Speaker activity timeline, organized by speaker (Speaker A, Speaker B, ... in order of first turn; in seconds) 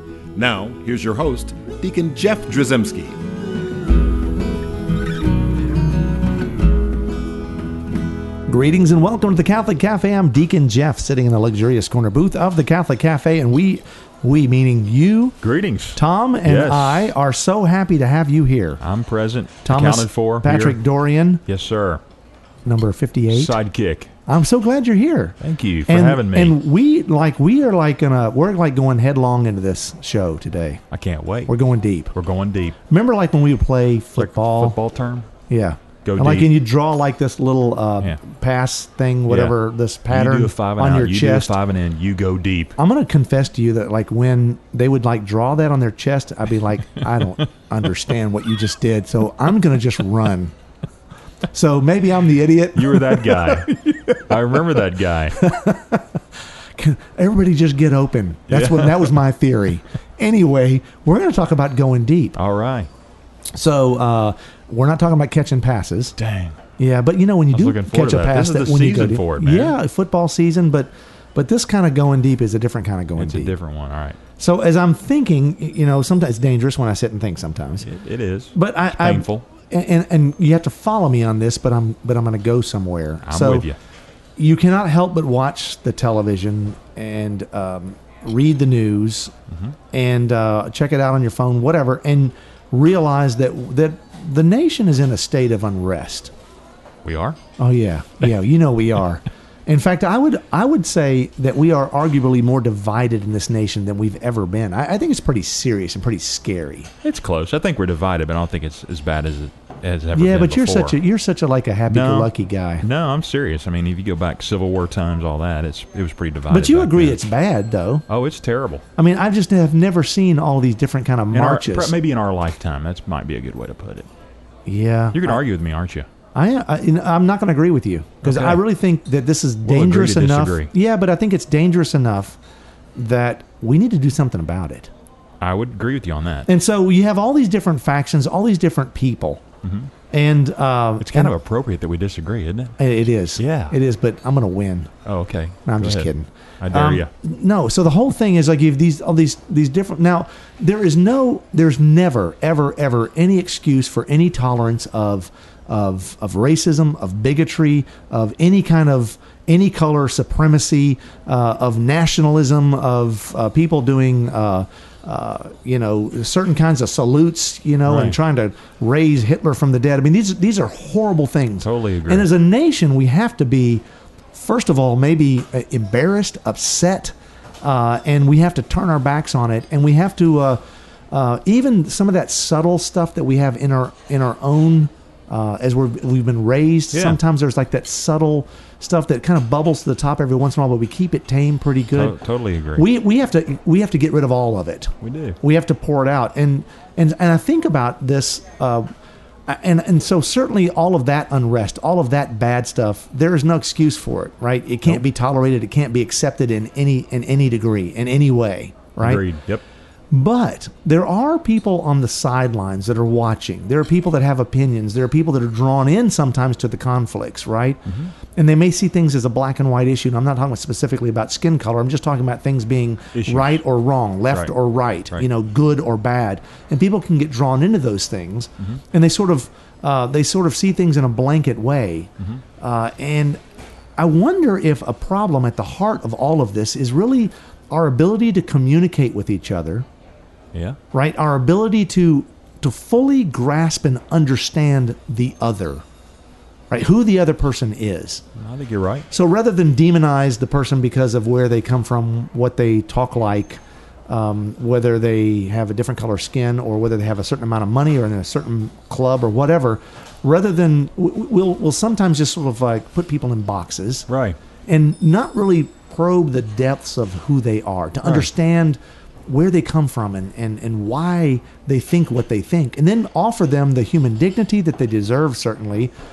Speaker A: 0.3-3.2
Speaker B: 8.5-15.4, 15.9-18.8, 19.6-21.4, 22.6-23.6, 24.3-30.8, 31.5-32.1, 32.9-34.8, 35.5-41.6, 42.8-50.5, 51.5-54.8, 55.3-62.4, 63.5-66.2, 66.8-73.5, 74.4-77.9, 78.5-83.7, 84.4-89.3, 89.9-96.3, 97.6-106.9, 110.2-112.8, 116.5-118.0, 119.0-121.9, 124.7-125.4, 126.3-132.4, 132.9-134.9, 136.5-139.5, 140.1-141.4, 142.8-144.9, 145.7-192.2, 192.8-198.9, 199.5-209.2, 210.1-233.4, 234.0-239.9, 240.9-245.8, 246.7-248.2, 249.1-264.1, 264.7-275.9
Speaker C: 15.4-17.1, 18.8-20.8, 21.5-22.0, 23.3-24.1, 25.4-26.6, 30.9-31.5, 32.1-32.8, 34.2-35.3, 36.0-36.5, 39.3-39.6, 40.1-42.8, 52.7-55.4, 58.5-59.1, 62.4-62.9, 66.2-66.6, 67.5-69.8, 73.2-74.2, 77.8-79.5, 83.2-83.8, 97.0-97.4, 107.0-111.0, 111.9-112.3, 112.8-117.2, 118.1-118.8, 121.3-124.1, 125.1-126.1, 128.2-128.6, 129.7-130.7, 135.4-136.5, 139.6-139.9, 141.0-142.8, 143.4-143.8, 145.1-147.1, 167.9-168.2, 171.6-172.3, 186.9-187.2, 191.9-192.9, 195.0-195.4, 209.0-209.6, 223.2-223.6, 248.4-249.1, 264.1-264.4